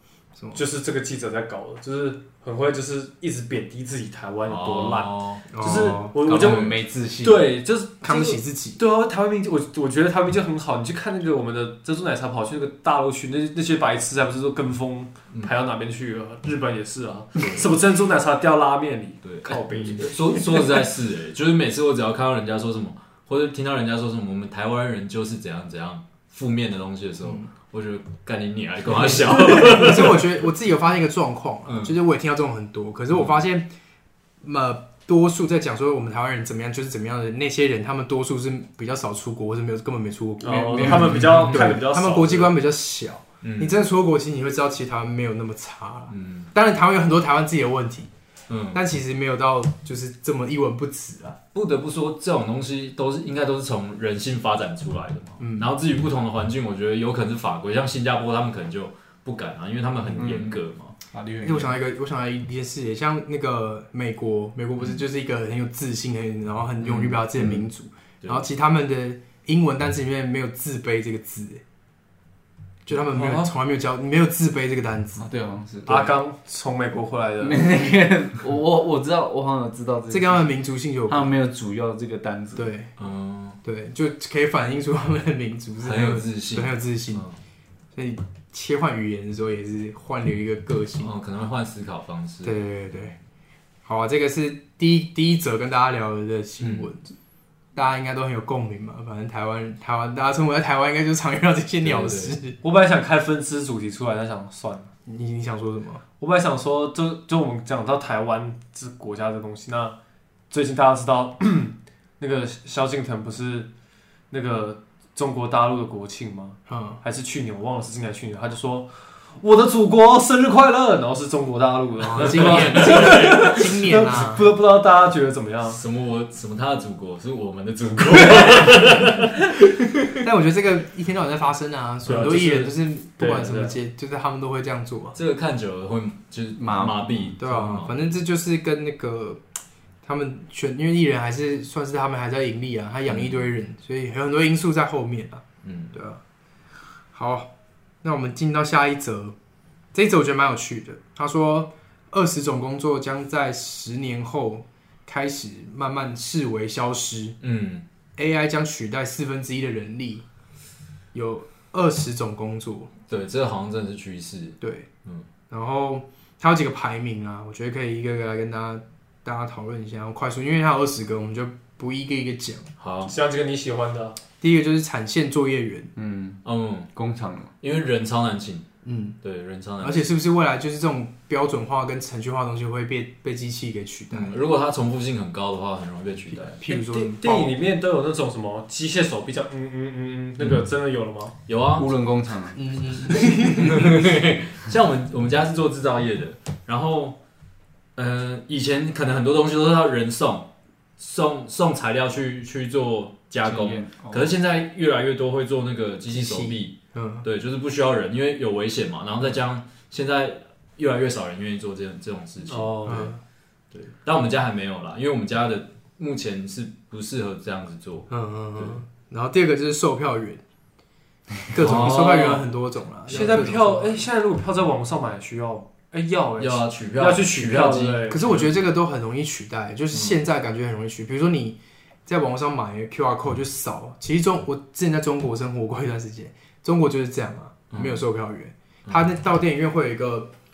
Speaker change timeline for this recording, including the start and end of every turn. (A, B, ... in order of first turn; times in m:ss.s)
0:00.5-0:20.6 A
0:04.5-0:05.5 B
0:05.5-0:06.2 C
0:06.2-0:07.5 D
0:06.3-0:06.8 B
0:08.0-0:08.8 C
0:17.4-0:17.7 B
0:19.2-0:30.2 B
0:29.4-0:33.7 C
0:31.7-0:32.0 B
0:34.4-0:48.1 C
0:40.4-0:42.6 A
0:40.8-0:41.8 B
0:43.4-0:43.8 B
0:46.1-0:46.5 B
0:48.5-0:48.8 B
0:48.7-0:51.4 C
0:51.5-1:01.0 B
0:55.4-0:55.7 C
1:00.2-1:00.6 D
1:01.1-1:01.7 D
1:01.4-1:11.6 C
1:06.9-1:07.2 B
1:12.9-1:15.3 C
1:13.1-1:13.5 A
1:15.2-1:16.2 D
1:15.9-1:17.6 A
1:17.4-1:20.5 D
1:20.1-1:21.3 C
1:21.1-1:22.6 D
1:22.6-1:22.9 C
1:23.0-1:23.6 B
1:23.6-1:27.2 C
1:25.8-1:27.4 B
1:27.9-1:31.1 C
1:31.0-1:32.6 B
1:32.4-1:33.2 C
1:33.9-1:37.1 C
1:36.6-1:36.9 B
1:37.8-1:42.6 C
1:41.8-1:42.4 B
1:42.6-1:44.9 A
1:45.1-1:46.0 C
1:46.2-1:50.0 A
1:50.5-1:53.7 A
1:54.3-2:05.8 A
1:56.7-1:57.0 C
2:02.0-2:04.5 C
2:02.2-2:03.5 B
2:05.7-2:09.3 B
2:10.2-2:15.2 C
2:12.1-2:13.8 A
2:15.2-2:18.0 B
2:16.6-2:17.0 D
2:17.4-2:19.4 C
2:20.0-2:26.2 C
2:23.1-2:23.4 B
2:25.6-2:25.9 B
2:27.1-2:27.5 C
2:28.0-2:29.4 C
2:29.9-2:37.4 C
2:37.4-2:37.8 B
2:38.2-2:40.2 C
2:41.1-2:42.9 C
2:43.1-2:45.3 B
2:44.6-2:44.9 C
2:45.5-2:52.7 C
2:52.8-2:53.1 B
2:53.0-2:54.2 A
2:54.4-2:55.9 C
2:56.0-2:56.4 D
2:56.4-2:56.9 B
2:56.9-2:57.5 D
2:57.6-2:58.7 B
2:58.8-2:59.2 C
2:59.2-3:00.1 B
2:59.8-3:04.4 C
3:04.1-3:06.6 B
3:06.3-3:07.5 C
3:06.6-3:11.3 A
3:10.4-3:10.7 B
3:11.5-3:11.9 B
3:11.8-3:12.6 D
3:12.6-3:14.0 C
3:13.2-3:17.2 B
3:18.0-3:33.1 B
3:23.4-3:24.3 D
3:26.1-3:27.2 C
3:32.5-3:33.1 A
3:32.8-3:33.2 C
3:33.7-3:38.8 B
3:38.1-3:40.4 C
3:41.5-3:44.0 C
3:41.6-3:42.5 B
3:43.1-3:48.3 A
3:43.1-3:43.6 B
3:46.4-3:48.5 B
3:48.1-4:00.3 C
3:57.7-3:58.0 B